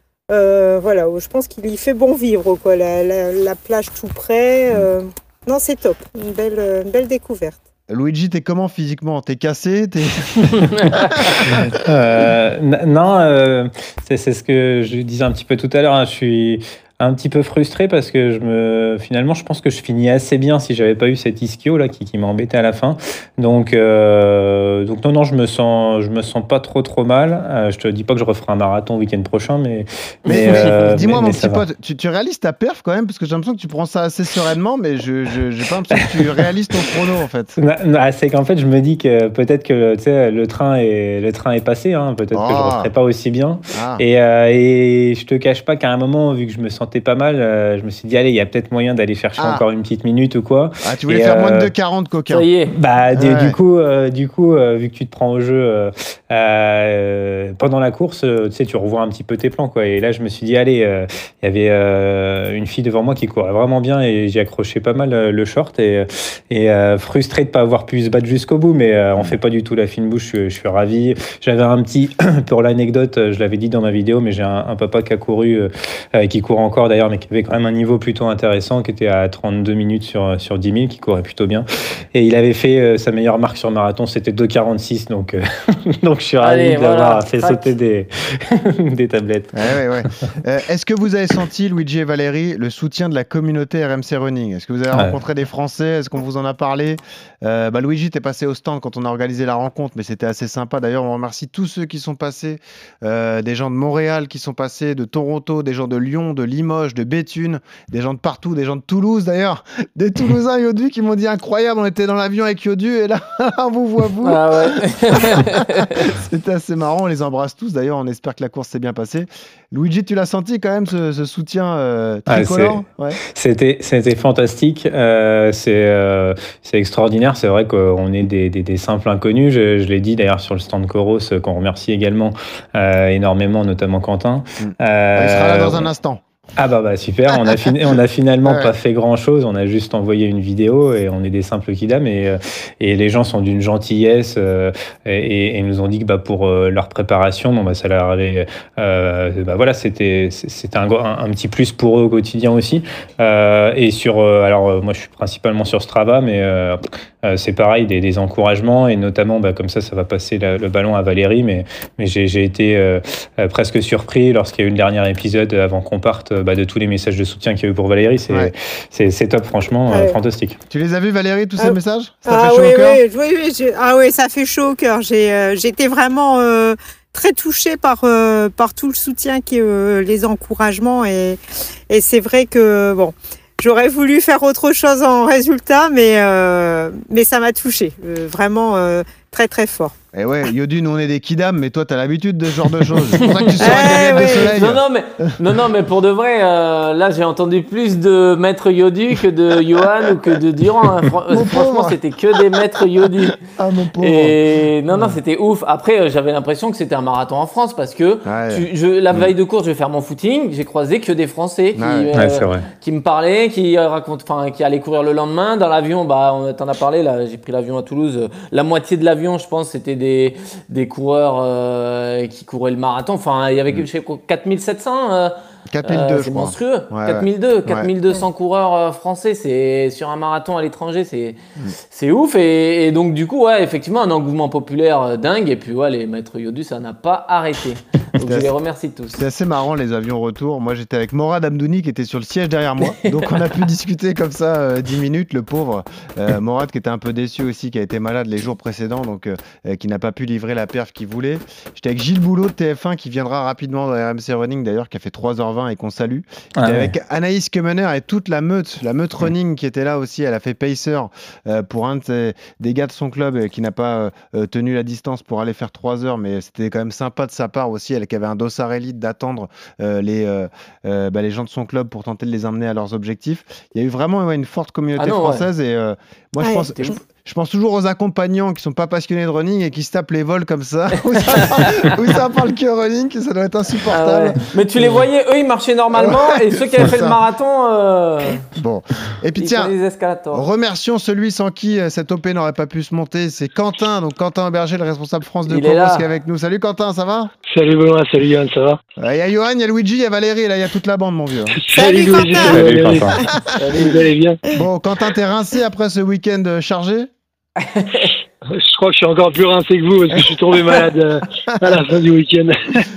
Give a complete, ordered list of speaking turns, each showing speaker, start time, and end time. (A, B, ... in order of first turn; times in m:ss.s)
0:00.3-0:07.6 A
0:07.9-0:11.5 B
0:10.7-0:11.5 C
0:11.5-0:31.6 D
0:30.3-0:30.7 C
0:30.3-0:37.6 B
0:36.0-0:36.3 D
0:37.6-0:51.7 D
0:42.3-0:42.9 B
0:43.7-0:44.0 B
0:49.4-0:49.6 B
0:50.8-0:52.5 B
0:52.3-0:52.7 C
0:52.7-1:29.5 D
0:53.1-0:53.6 B
1:26.4-1:27.7 C
1:29.6-1:54.8 B
1:54.2-1:56.1 C
1:55.4-2:03.2 B
2:02.3-2:15.9 D
2:14.6-2:16.2 B
2:16.6-2:50.6 D
2:18.4-2:18.7 B
2:49.9-2:50.2 A
2:50.7-2:53.0 B
2:52.3-3:10.0 A
3:10.1-3:15.3 B
3:13.2-3:23.4 C
3:13.6-3:14.5 A
3:21.3-3:22.6 B
3:23.4-3:24.4 B
3:24.0-3:51.4 C
3:28.2-3:29.3 B
3:31.8-3:32.1 B
3:32.1-3:32.7 D
3:45.7-3:47.9 B
3:51.9-3:59.2 C
3:58.2-3:58.5 B
3:59.1-4:44.9 B
4:16.6-4:16.9 D
4:35.0-4:35.5 C
4:36.4-4:36.7 A
4:41.1-4:41.9 C
4:43.9-4:48.5 C
4:46.0-4:47.2 B
4:48.6-4:49.8 B
4:49.4-4:50.4 C
4:50.3-4:57.3 B
4:55.5-4:56.1 C
4:57.5-4:58.8 E
4:59.0-5:01.6 B
5:01.5-5:03.2 E
5:01.7-5:03.3 A
5:02.4-5:03.2 D
5:03.6-5:04.0 C
5:03.8-5:04.4 E
5:04.5-5:07.1 B
5:07.6-5:08.1 C
5:08.6-5:12.9 E